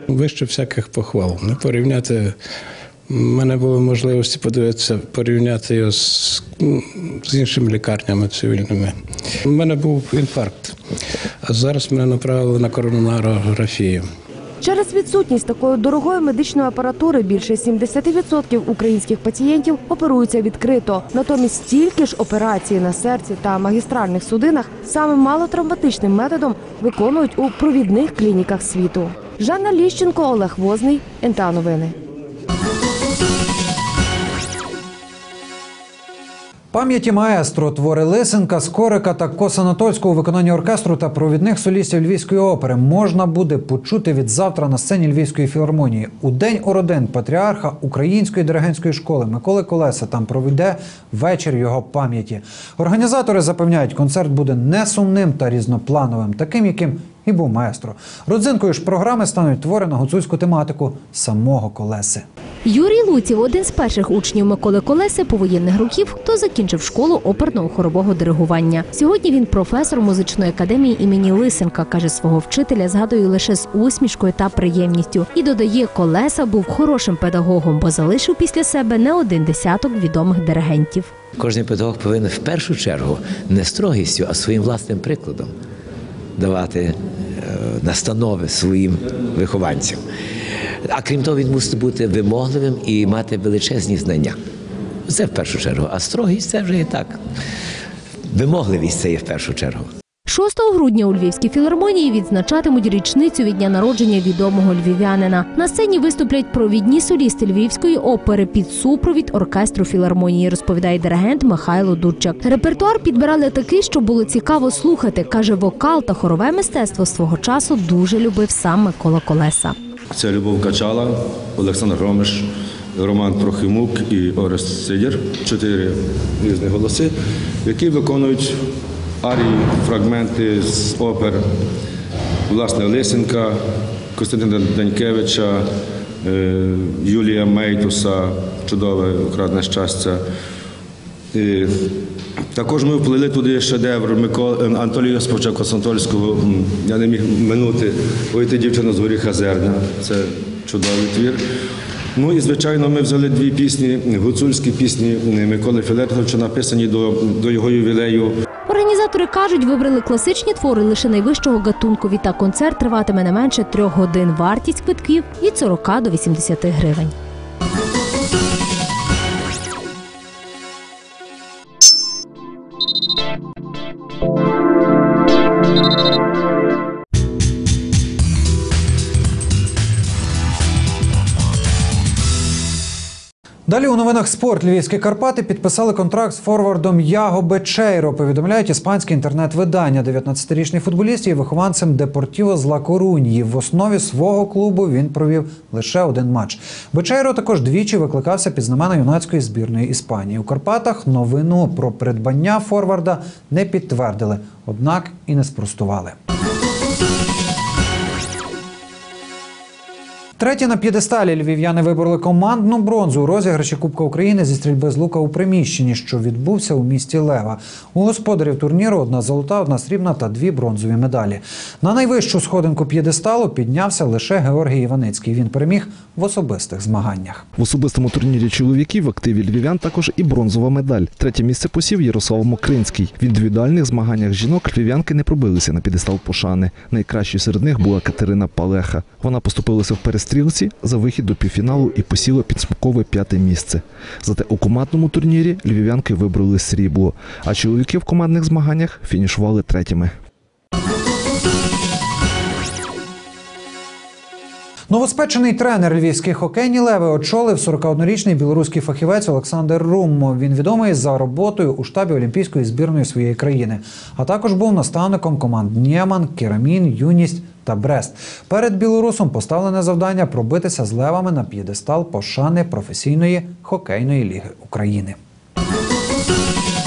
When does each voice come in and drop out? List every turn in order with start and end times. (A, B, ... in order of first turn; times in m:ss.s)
0:00.1-0:02.4 A
0:03.1-0:08.9 A
0:09.5-0:10.8 A
0:11.5-0:14.0 A
0:14.6-0:31.9 B
0:36.7-1:02.2 C
1:02.6-1:21.1 D
1:21.4-1:25.5 E
1:26.4-1:26.9 E
1:27.5-1:30.0 E
1:30.9-1:34.3 E
1:35.1-1:37.2 E
1:38.3-1:39.8 E
1:40.3-1:59.8 D
2:00.1-2:07.1 F
2:07.6-2:08.6 F
2:09.2-2:11.4 F
2:12.5-2:13.6 F
2:14.2-2:15.6 F
2:16.2-2:20.2 F
2:21.3-2:21.7 F
2:22.5-2:31.4 F
2:32.2-2:38.3 F
2:38.7-2:47.1 D
3:03.7-3:26.2 C
3:30.4-3:47.4 C
3:47.6-4:10.1 G
4:14.9-4:35.2 C